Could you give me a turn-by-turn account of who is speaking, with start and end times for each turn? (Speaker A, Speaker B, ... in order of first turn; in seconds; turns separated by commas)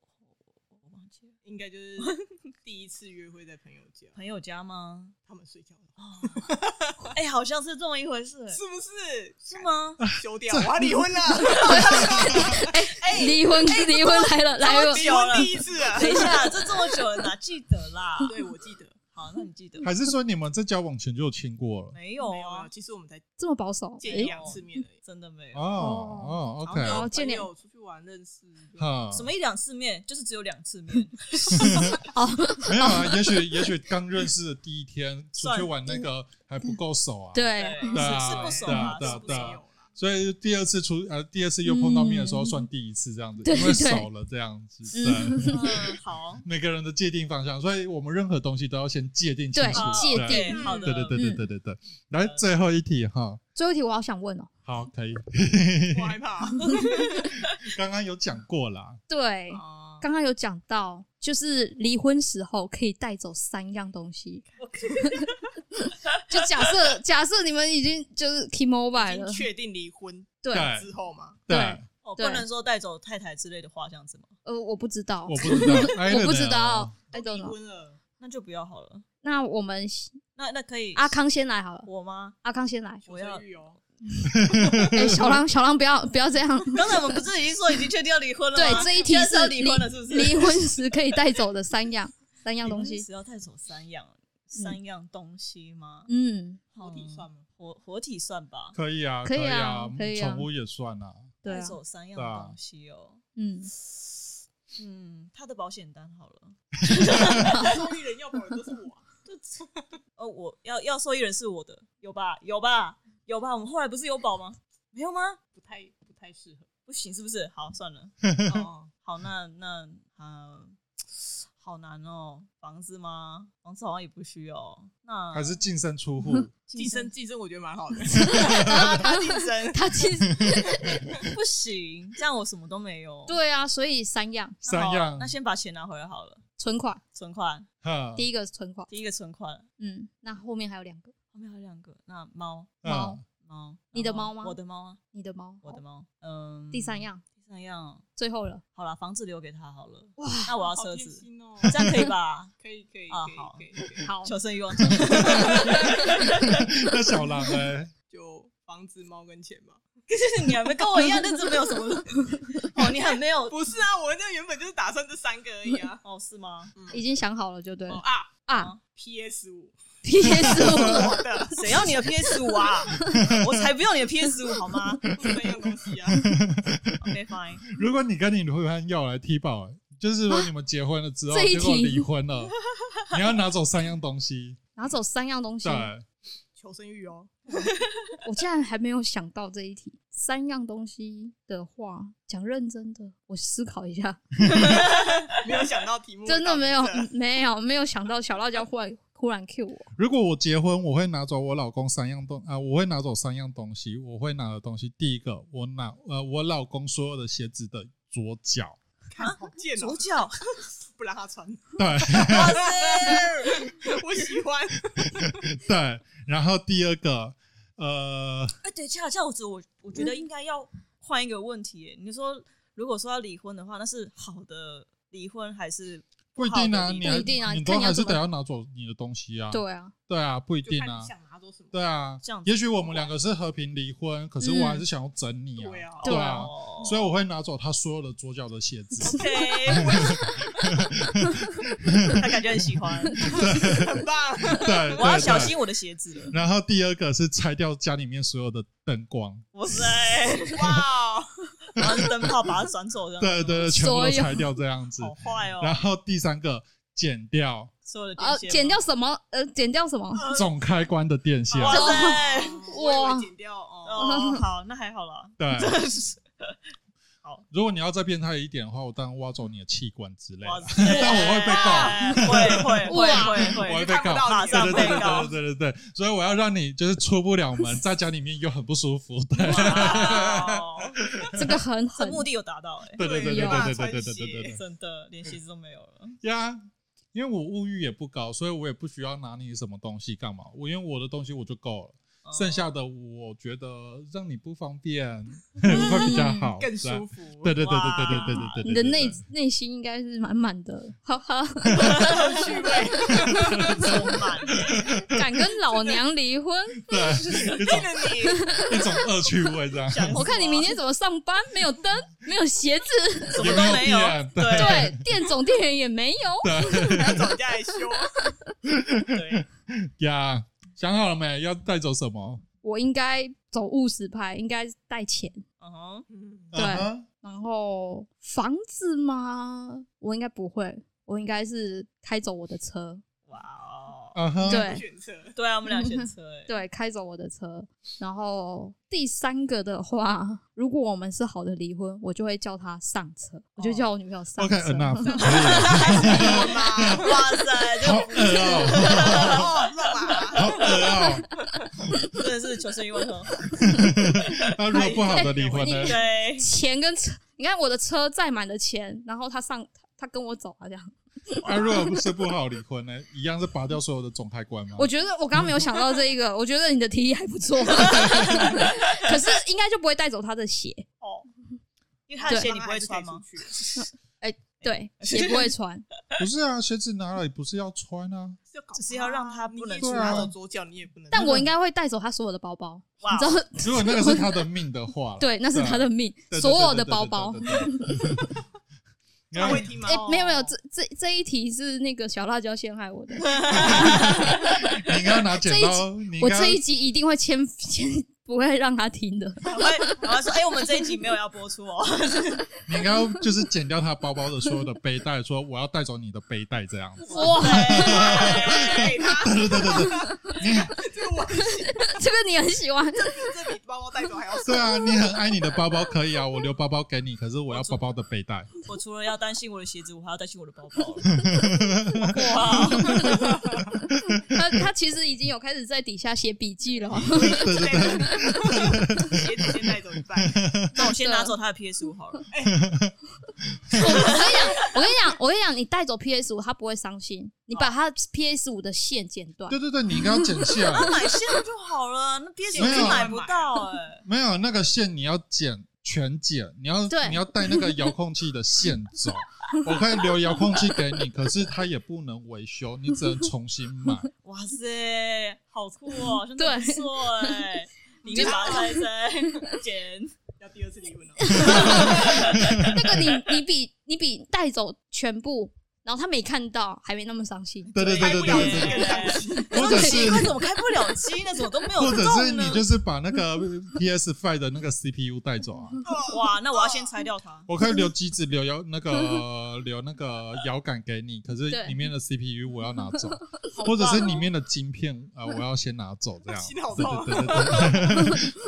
Speaker A: 0.7-1.4, Speaker B: 1.4-4.2, Speaker A: 4.1-5.1, Speaker B: 5.2-7.1, Speaker A: 6.0-6.5, Speaker A: 7.1-8.6, Speaker B: 8.5-17.0, Speaker A: 9.4-10.0, Speaker C: 10.0-11.1, Speaker D: 11.4-15.5, Speaker C: 11.9-12.6, Speaker A: 14.6-18.4, Speaker B: 18.3-19.0, Speaker A: 19.1-19.9, Speaker C: 19.8-21.9, Speaker A: 21.9-22.7, Speaker B: 22.2-23.2, Speaker D: 23.4-24.3, Speaker B: 24.0-25.0, Speaker A: 24.0-25.7, Speaker C: 25.5-27.1, Speaker D: 25.8-27.5, Speaker B: 26.6-28.9, Speaker C: 28.8-29.3, Speaker A: 29.1-32.0, Speaker C: 31.6-31.9, Speaker D: 32.0-33.7, Speaker C: 32.6-45.6, Speaker A: 35.4-35.7, Speaker D: 37.3-38.2, Speaker A: 37.6-39.6, Speaker B: 37.8-39.9, Speaker D: 41.6-42.6, Speaker D: 43.4-44.1, Speaker D: 44.9-45.7, Speaker A: 45.5-46.5, Speaker C: 46.4-53.4, Speaker D: 49.5-51.4, Speaker A: 49.7-51.2, Speaker B: 50.5-51.0, Speaker A: 52.2-52.5, Speaker D: 53.5-54.5, Speaker C: 54.6-56.2, Speaker B: 55.9-57.3, Speaker A: 56.6-57.3, Speaker C: 57.5-59.0, Speaker D: 59.1-64.4, Speaker B: 59.5-60.0, Speaker B: 64.5-65.0, Speaker A: 64.6-65.3, Speaker D: 65.8-69.5, Speaker B: 69.0-71.4, Speaker D: 70.4-70.7, Speaker C: 70.5-70.9, Speaker C: 71.5-71.8, Speaker D: 71.5-72.4, Speaker A: 72.0-74.3, Speaker D: 74.4-77.5, Speaker C: 75.2-76.9, Speaker B: 77.1-78.0, Speaker A: 78.2-79.0, Speaker D: 79.2-80.2, Speaker A: 80.3-81.2, Speaker D: 81.0-81.9, Speaker A: 81.8-82.3, Speaker D: 82.4-83.0, Speaker B: 83.0-83.8, Speaker A: 83.1-83.4, Speaker D: 84.2-87.2, Speaker C: 84.3-85.4, Speaker A: 86.7-91.1, Speaker D: 88.5-93.0, Speaker A: 92.6-96.1, Speaker D: 96.1-96.6, Speaker A: 96.7-98.8, Speaker B: 96.8-97.5, Speaker C: 98.8-101.3, Speaker D: 99.2-100.5, Speaker D: 101.4-101.8, Speaker A: 101.5-103.2, Speaker C: 102.2-102.5, Speaker D: 103.3-103.7, Speaker A: 104.8-107.8, Speaker C: 106.9-107.3, Speaker B: 107.2-109.0, Speaker A: 109.2-109.6, Speaker A: 110.2-115.4, Speaker B: 115.5-116.7, Speaker A: 116.9-118.1, Speaker C: 118.2-118.6, Speaker B: 118.5-118.9, Speaker A: 119.0-125.6, Speaker C: 125.3-126.5, Speaker A: 126.7-127.1, Speaker B: 126.8-130.3, Speaker D: 128.2-131.1, Speaker B: 130.9-131.3, Speaker A: 131.2-133.4, Speaker D: 133.3-134.6, Speaker C: 134.6-135.3, Speaker A: 134.6-136.4, Speaker D: 136.6-137.0, Speaker A: 137.1-137.7, Speaker C: 137.8-138.2, Speaker D: 138.2-138.9, Speaker A: 138.9-139.6, Speaker D: 139.8-141.1, Speaker A: 141.3-142.8, Speaker C: 142.8-143.2, Speaker D: 142.8-143.2, Speaker A: 143.4-145.0, Speaker D: 143.9-144.6, Speaker D: 145.1-145.8, Speaker A: 145.6-148.0, Speaker D: 146.7-147.2, Speaker D: 148.2-148.6, Speaker A: 148.8-152.5, Speaker D: 150.2-150.5, Speaker B: 150.6-151.9, Speaker B: 152.6-154.1, Speaker A: 153.1-153.7, Speaker D: 154.0-154.3, Speaker A: 154.2-156.6, Speaker B: 155.2-156.1, Speaker C: 156.4-157.9, Speaker B: 158.1-159.8, Speaker A: 160.1-163.6, Speaker B: 163.5-166.0, Speaker A: 166.0-166.7, Speaker B: 166.8-167.0, Speaker D: 166.9-168.7, Speaker B: 167.9-168.3, Speaker A: 168.5-168.8, Speaker B: 168.8-172.0, Speaker D: 170.0-171.8, Speaker A: 171.5-175.1, Speaker D: 172.9-173.3, Speaker C: 173.1-173.5, Speaker B: 175.1-176.3, Speaker C: 176.1-177.0, Speaker A: 177.0-177.6, Speaker C: 177.7-182.5, Speaker D: 181.3-182.1, Speaker C: 183.1-184.6, Speaker D: 184.8-185.9, Speaker C: 185.6-186.0, Speaker B: 186.6-187.7, Speaker D: 188.2-194.8, Speaker C: 194.5-194.8, Speaker A: 194.5-195.1, Speaker B: 195.3-197.1, Speaker D: 196.2-199.9, Speaker C: 200.0-208.8, Speaker B: 209.1-215.5, Speaker A: 209.2-210.4, Speaker C: 211.8-212.6, Speaker A: 212.2-213.8, Speaker C: 215.2-218.6, Speaker A: 218.6-227.3, Speaker C: 226.3-231.1, Speaker D: 227.0-228.2, Speaker D: 229.5-229.9, Speaker B: 230.6-231.8, Speaker C: 231.7-242.3, Speaker A: 232.2-233.0, Speaker D: 234.4-234.8, Speaker B: 235.6-236.2, Speaker A: 236.0-237.0, Speaker D: 236.0-236.5, Speaker A: 239.0-240.1, Speaker B: 239.7-240.7, Speaker A: 242.1-243.5, Speaker C: 243.2-245.5, Speaker B: 243.2-245.5, Speaker A: 244.9-246.4, Speaker C: 246.3-249.5, Speaker A: 249.5-250.8, Speaker B: 250.5-251.5, Speaker A: 251.7-253.7, Speaker C: 251.8-252.4, Speaker C: 253.2-257.7, Speaker D: 253.6-254.5, Speaker A: 255.0-255.8, Speaker A: 257.8-258.8, Speaker D: 258.2-260.3, Speaker B: 260.2-260.4, Speaker C: 260.3-261.9, Speaker A: 261.6-262.7, Speaker B: 261.6-264.2, Speaker D: 261.6-263.3, Speaker A: 263.8-267.4, Speaker D: 264.0-264.4, Speaker C: 265.4-265.8, Speaker C: 267.5-281.6, Speaker A: 270.4-275.3, Speaker B: 270.8-272.2, Speaker D: 272.9-273.5, Speaker B: 273.0-275.3, Speaker A: 279.4-281.0, Speaker D: 281.3-282.3, Speaker A: 281.9-283.2, Speaker C: 282.9-284.6, Speaker B: 283.0-284.6, Speaker D: 283.2-283.7, Speaker A: 284.4-286.2, Speaker C: 286.2-286.6, Speaker C: 287.1-299.2, Speaker A: 292.2-292.7, Speaker D: 295.7-296.5, Speaker B: 295.7-297.6, Speaker A: 297.6-298.6, Speaker D: 298.6-302.4, Speaker A: 301.8-302.5, Speaker B: 301.8-303.9, Speaker C: 303.2-305.4, Speaker A: 303.7-304.9, Speaker D: 305.1-307.2, Speaker C: 306.8-307.9, Speaker A: 307.2-307.7, Speaker B: 307.4-308.6, Speaker D: 308.2-309.1, Speaker C: 308.6-310.3, Speaker A: 309.9-310.8, Speaker D: 310.1-313.7, Speaker A: 313.3-314.9, Speaker C: 313.4-315.2, Speaker D: 314.5-318.5, Speaker C: 316.4-317.4, Speaker B: 316.7-318.3, Speaker C: 318.6-322.4, Speaker A: 319.1-319.4, Speaker D: 322.6-325.4, Speaker A: 325.6-326.1, Speaker B: 326.1-326.5, Speaker C: 326.5-327.1, Speaker D: 326.5-333.0, Speaker A: 333.3-334.2, Speaker C: 334.1-334.7, Speaker B: 334.4-335.4, Speaker D: 334.4-334.8, Speaker A: 335.3-336.5, Speaker D: 335.8-345.3, Speaker A: 343.6-343.9, Speaker C: 344.4-347.1, Speaker B: 345.1-347.2, Speaker A: 345.2-349.6, Speaker C: 347.8-349.5, Speaker B: 348.4-350.9, Speaker A: 350.3-350.7, Speaker C: 350.3-351.3, Speaker A: 352.2-353.4, Speaker C: 353.6-356.0, Speaker A: 354.3-356.5, Speaker B: 354.8-355.7, Speaker D: 355.1-361.5, Speaker A: 361.4-361.8, Speaker C: 361.4-365.7, Speaker D: 364.8-370.9, Speaker A: 368.4-369.0, Speaker A: 371.0-371.3, Speaker A: 372.1-373.8, Speaker B: 372.2-373.6, Speaker D: 373.8-375.9, Speaker A: 374.6-375.5, Speaker C: 376.2-378.4, Speaker B: 378.5-381.5, Speaker A: 378.7-380.3, Speaker C: 379.8-380.3, Speaker D: 381.1-384.4, Speaker C: 381.2-381.5, Speaker A: 383.0-383.4, Speaker C: 383.6-388.3, Speaker D: 385.2-388.2, Speaker C: 389.3-389.7, Speaker B: 389.3-390.1, Speaker D: 389.8-394.6, Speaker A: 389.8-390.5, Speaker A: 393.3-394.3, Speaker C: 393.6-396.6, Speaker D: 395.3-400.0, Speaker A: 399.4-402.5, Speaker C: 402.7-410.8, Speaker A: 407.1-408.9, Speaker D: 407.1-408.1, Speaker B: 407.9-412.0, Speaker D: 411.3-413.4, Speaker B: 412.9-414.9, Speaker C: 414.4-418.5, Speaker D: 414.5-415.2, Speaker A: 417.5-417.9, Speaker A: 418.6-421.1, Speaker C: 421.1-423.4, Speaker A: 421.9-423.2, Speaker D: 422.1-428.6, Speaker C: 424.1-424.6, Speaker B: 426.9-430.4, Speaker C: 427.1-429.6, Speaker C: 430.2-430.7, Speaker A: 430.7-432.3, Speaker D: 430.8-431.3, Speaker B: 432.3-432.6, Speaker C: 432.4-433.9, Speaker D: 433.7-440.8, Speaker A: 434.1-434.8, Speaker C: 439.5-440.9, Speaker A: 440.7-444.0, Speaker B: 442.5-443.6, Speaker C: 442.6-443.1, Speaker C: 444.0-454.1, Speaker D: 446.9-447.9, Speaker A: 454.2-460.1, Speaker D: 456.4-457.5, Speaker B: 458.0-458.8, Speaker D: 458.1-458.8, Speaker B: 460.4-462.4, Speaker D: 461.2-467.8, Speaker C: 461.3-463.0, Speaker A: 461.3-462.4, Speaker C: 467.7-470.4, Speaker B: 467.8-469.9, Speaker A: 467.9-472.7, Speaker D: 469.5-470.3, Speaker C: 471.8-475.8, Speaker B: 475.8-476.9, Speaker A: 476.1-477.5, Speaker C: 477.5-488.3, Speaker D: 478.9-479.2, Speaker D: 481.5-481.9, Speaker D: 483.1-483.4, Speaker B: 483.6-484.2, Speaker A: 483.6-484.0, Speaker B: 486.3-488.1